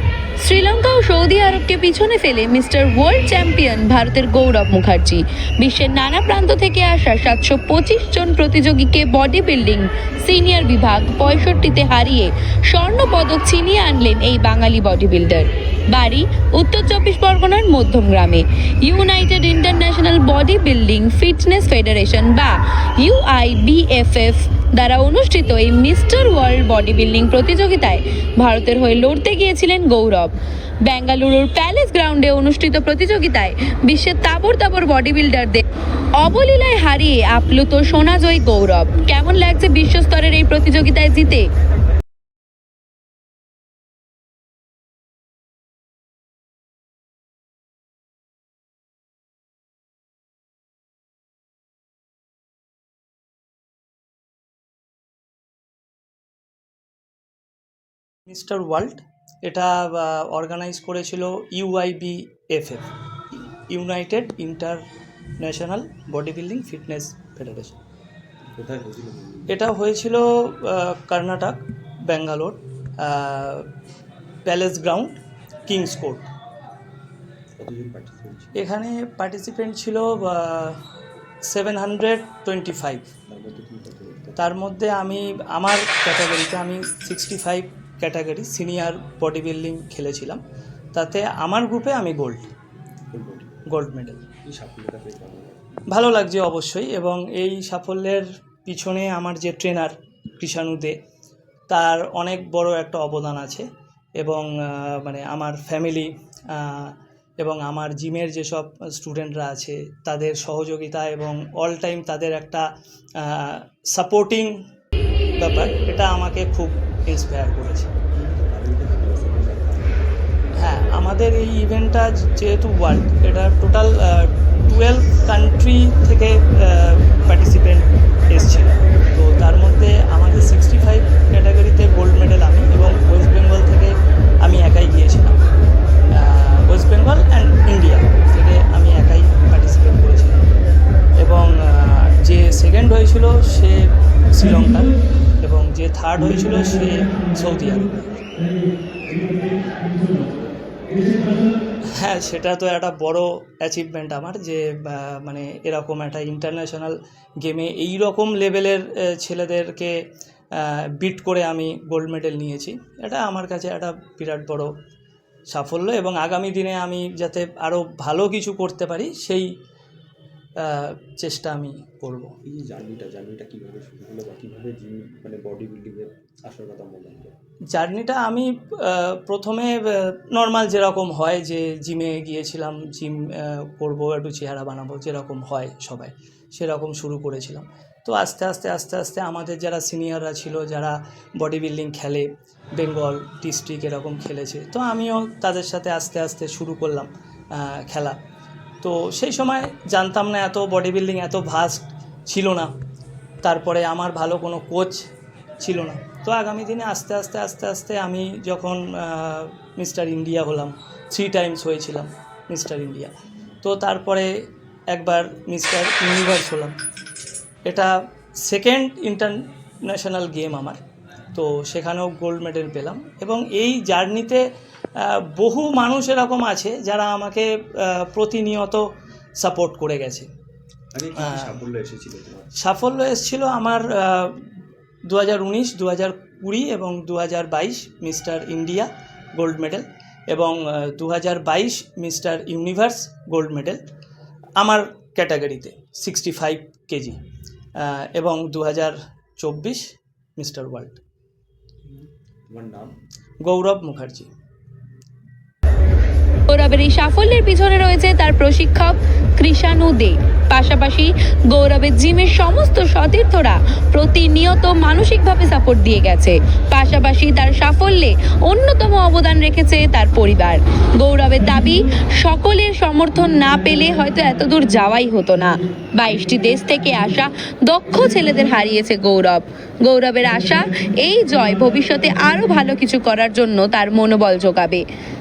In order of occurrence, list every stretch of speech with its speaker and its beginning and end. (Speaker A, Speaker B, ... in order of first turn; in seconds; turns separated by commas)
Speaker A: 0.4-35.6, Speaker A: 36.2-41.5, Speaker B: 58.3-62.9, Speaker B: 63.7-64.8, Speaker B: 65.4-67.8, Speaker C: 68.5-69.5, Speaker B: 69.5-73.7, Speaker B: 74.4-76.3, Speaker C: 77.6-78.6, Speaker B: 78.5-80.8, Speaker B: 81.5-83.1, Speaker C: 83.3-84.4, Speaker B: 84.4-90.4, Speaker B: 90.9-92.5, Speaker C: 93.1-93.6, Speaker B: 93.7-94.2, Speaker C: 94.5-95.8, Speaker B: 95.9-101.0, Speaker B: 101.7-103.7, Speaker B: 104.2-112.7, Speaker B: 113.2-114.6, Speaker B: 115.4-117.9, Speaker C: 118.1-120.1, Speaker B: 120.6-135.5, Speaker B: 136.1-140.5, Speaker B: 141.2-148.0, Speaker B: 151.9-160.0, Speaker B: 160.5-164.7, Speaker B: 165.5-169.5, Speaker B: 170.6-172.3, Speaker C: 172.5-177.3, Speaker B: 177.7-198.2, Speaker B: 198.8-202.7, Speaker B: 203.4-205.1, Speaker B: 205.6-214.3, Speaker B: 214.9-216.8, Speaker B: 217.7-220.8, Speaker B: 221.3-224.4, Speaker B: 225.0-228.8, Speaker B: 229.4-230.3, Speaker C: 230.9-232.5, Speaker B: 231.2-231.6, Speaker B: 232.6-234.5, Speaker B: 235.1-243.8, Speaker B: 244.6-247.2, Speaker B: 247.8-251.0, Speaker C: 251.9-252.9, Speaker B: 253.4-254.3, Speaker A: 256.5-284.9